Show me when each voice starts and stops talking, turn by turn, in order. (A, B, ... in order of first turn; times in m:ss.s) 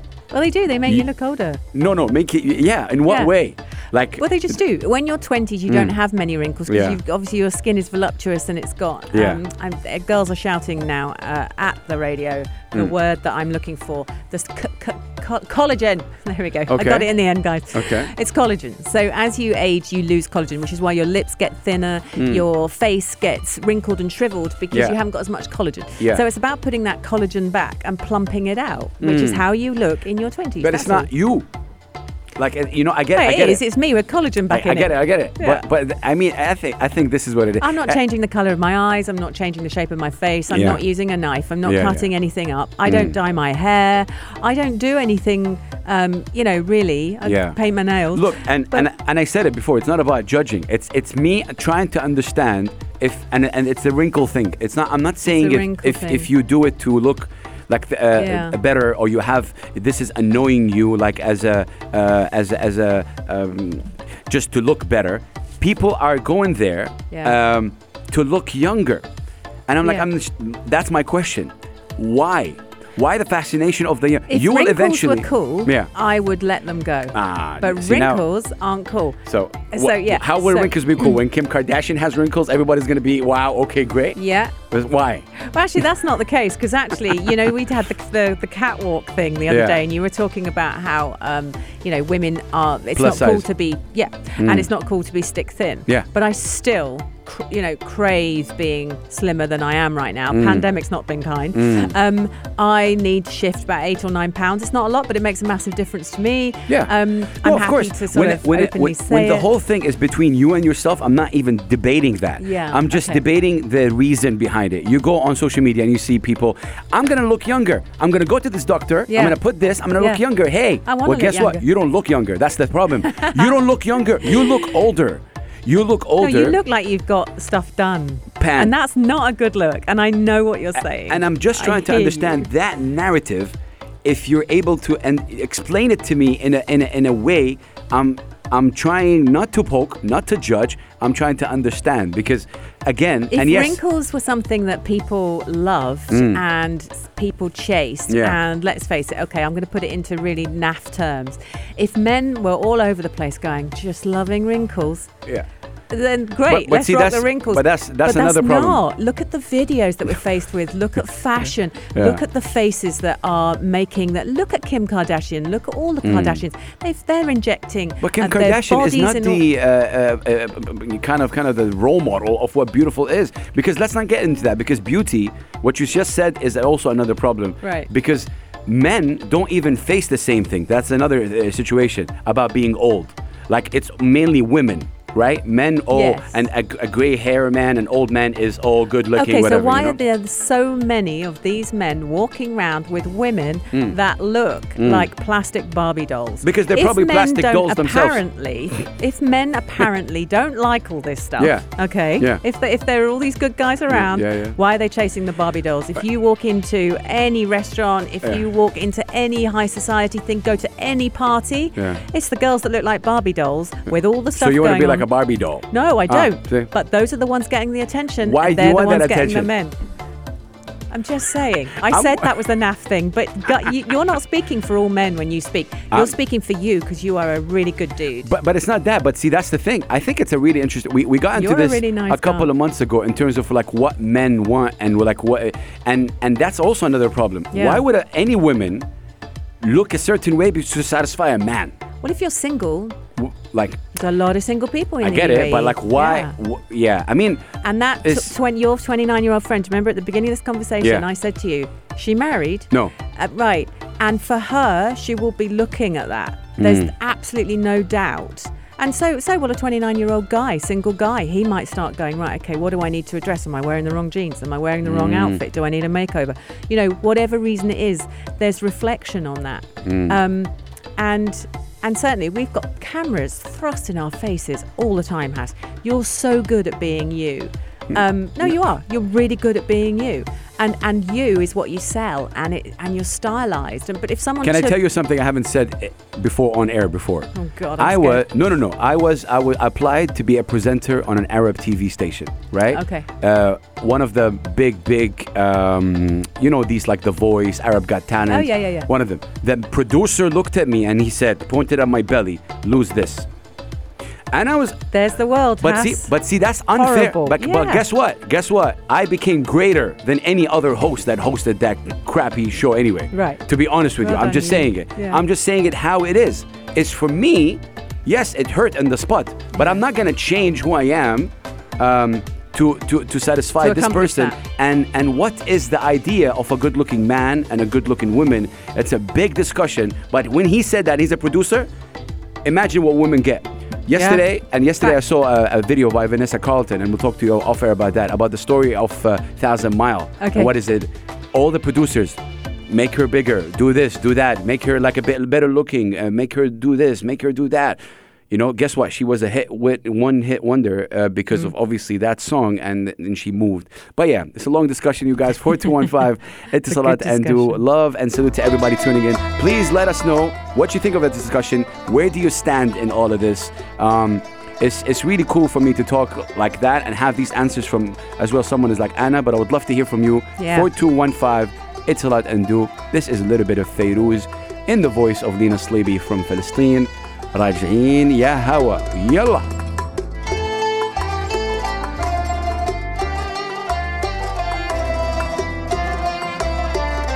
0:00.3-0:01.6 A
0:01.7-0:04.2 B
0:03.1-0:03.3 A
0:04.2-0:31.1 A
0:05.7-0:05.9 B
0:06.7-0:07.0 B
0:09.1-0:09.4 B
0:16.7-0:17.1 B
0:17.7-0:18.1 B
0:22.2-0:22.4 B
0:29.0-0:29.4 B
0:30.6-0:31.5 B
0:32.4-0:33.6 B
0:33.1-0:35.6 A
0:34.5-0:38.0 B
0:37.6-0:48.9 A
0:40.5-0:40.8 B
0:41.6-0:42.1 B
0:42.9-0:43.2 B
0:47.2-0:47.6 B
0:48.1-1:09.0 B
0:55.2-0:56.3 A
0:58.2-0:58.6 A
1:07.1-1:07.4 A
1:09.7-1:15.9 B
1:14.3-1:21.1 A
1:17.1-1:18.2 B
1:19.3-1:24.2 B
1:24.2-1:24.6 A
1:24.7-1:25.3 B
1:25.4-1:49.5 A
1:29.5-1:29.8 B
1:33.0-1:33.4 B
1:34.4-1:34.7 B
1:40.3-1:40.7 B
1:41.6-1:41.9 B
1:46.7-2:06.6 B
1:52.4-1:53.2 A
1:59.1-1:59.4 A
2:00.0-2:00.2 A
2:00.8-2:01.6 A
2:03.0-2:03.4 A
2:04.2-2:04.7 A
2:06.2-2:12.5 A
2:08.4-2:08.7 B
2:11.1-2:23.8 B
2:23.3-2:35.1 A
2:26.1-2:26.4 B
2:28.1-2:28.4 B
2:35.9-2:49.4 A
2:36.5-2:38.8 B
2:42.0-2:42.2 B
2:46.0-2:46.4 B
2:48.0-3:10.0 B
2:57.6-2:57.9 A
3:05.9-3:06.4 A
3:09.1-3:35.1 A
3:14.8-3:15.1 B
3:16.4-3:18.2 B
3:21.4-3:21.6 B
3:23.9-3:24.6 B
3:31.8-3:32.0 B
3:34.4-3:36.7 B
3:35.7-3:39.8 A
3:38.2-3:39.5 B
3:40.9-3:48.3 A
3:41.8-3:42.3 B
3:48.2-3:58.9 B
3:51.3-3:52.5 A
3:57.5-3:57.8 A
3:59.6-4:01.8 B
4:02.0-4:03.0 A
4:03.2-4:03.8 B
4:03.9-4:06.3 A
4:05.0-4:07.5 B
4:07.6-4:44.8 A
4:08.0-4:08.3 B
4:16.6-4:16.9 B
4:24.8-4:25.4 B
4:29.8-4:30.2 B
4:44.4-5:03.3 B
4:47.4-4:48.3 A
4:52.7-4:53.1 A
4:58.3-4:58.9 A
5:04.3-5:04.8 B
5:04.9-5:06.1 A
5:05.6-5:31.7 B
5:06.8-5:07.8 A
5:13.1-5:13.4 A
5:14.0-5:15.2 A
5:23.6-5:24.4 A
5:32.4-5:42.2 B
5:33.9-5:34.2 A
5:40.2-5:40.5 A
5:42.7-5:47.8 B
5:48.3-6:19.5 B
5:56.7-5:57.6 A
6:10.4-6:10.7 A